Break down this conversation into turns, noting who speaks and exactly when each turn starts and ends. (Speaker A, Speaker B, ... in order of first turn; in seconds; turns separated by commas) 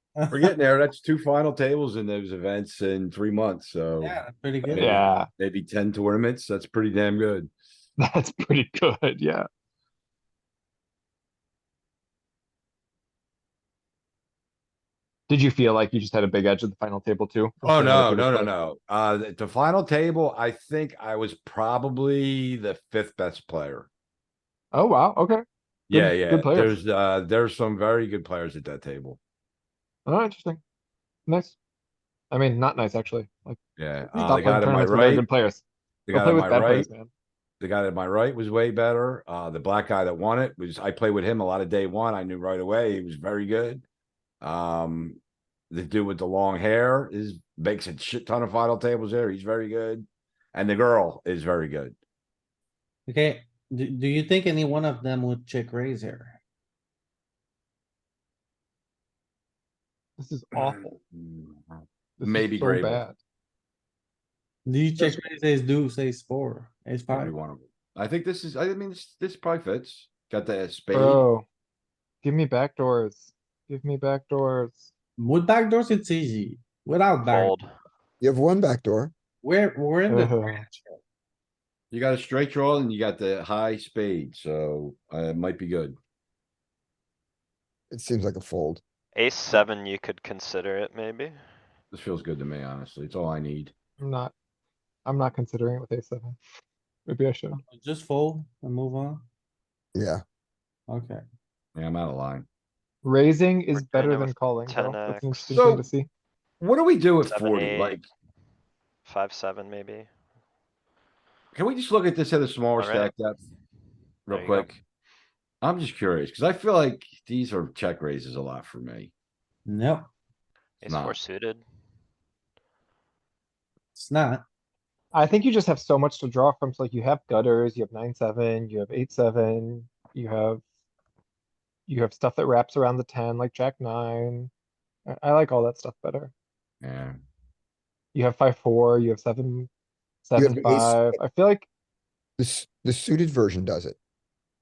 Speaker A: 0.1-0.5, Speaker B: 0.3-7.5, Speaker A: 4.0-5.1, Speaker C: 4.7-5.3, Speaker C: 8.0-9.4, Speaker C: 15.3-18.5, Speaker B: 17.6-23.9, Speaker C: 24.7-26.8, Speaker B: 25.9-29.2, Speaker C: 30.1-30.6, Speaker C: 31.3-31.6, Speaker C: 32.3-37.1, Speaker B: 33.8-35.2, Speaker B: 36.1-36.9, Speaker B: 37.6-43.8, Speaker B: 44.4-45.2, Speaker B: 45.7-52.0, Speaker A: 53.1-56.4, Speaker C: 60.2-60.9, Speaker B: 60.5-63.0, Speaker C: 62.2-63.2, Speaker A: 64.7-67.3, Speaker B: 67.1-71.2, Speaker C: 70.9-71.5, Speaker C: 72.2-74.9, Speaker A: 75.2-77.5, Speaker D: 77.3-77.7, Speaker E: 78.2-79.1, Speaker A: 79.4-81.0, Speaker C: 80.1-80.6, Speaker B: 81.9-86.0, Speaker E: 87.9-88.8, Speaker D: 89.1-91.4, Speaker B: 91.9-93.7, Speaker C: 94.0-94.3, Speaker C: 95.0-96.4, Speaker C: 97.1-97.6, Speaker A: 97.5-99.2, Speaker E: 99.9-100.2, Speaker A: 100.9-101.2, Speaker B: 101.7-102.5, Speaker C: 103.0-106.1, Speaker D: 103.7-105.3, Speaker B: 105.5-105.8, Speaker B: 106.6-108.0, Speaker D: 107.2-108.0, Speaker D: 109.0-110.1, Speaker B: 111.5-113.4, Speaker D: 112.8-113.1, Speaker B: 114.3-114.8, Speaker D: 114.3-114.8, Speaker B: 115.6-119.1, Speaker A: 119.7-120.1, Speaker D: 120.8-121.6, Speaker B: 120.8-121.2, Speaker A: 123.9-124.4, Speaker C: 125.1-130.6, Speaker C: 131.9-134.5, Speaker C: 135.1-136.3, Speaker B: 136.8-137.2, Speaker C: 138.1-139.7, Speaker C: 140.2-141.7, Speaker E: 140.4-141.2, Speaker E: 142.4-144.0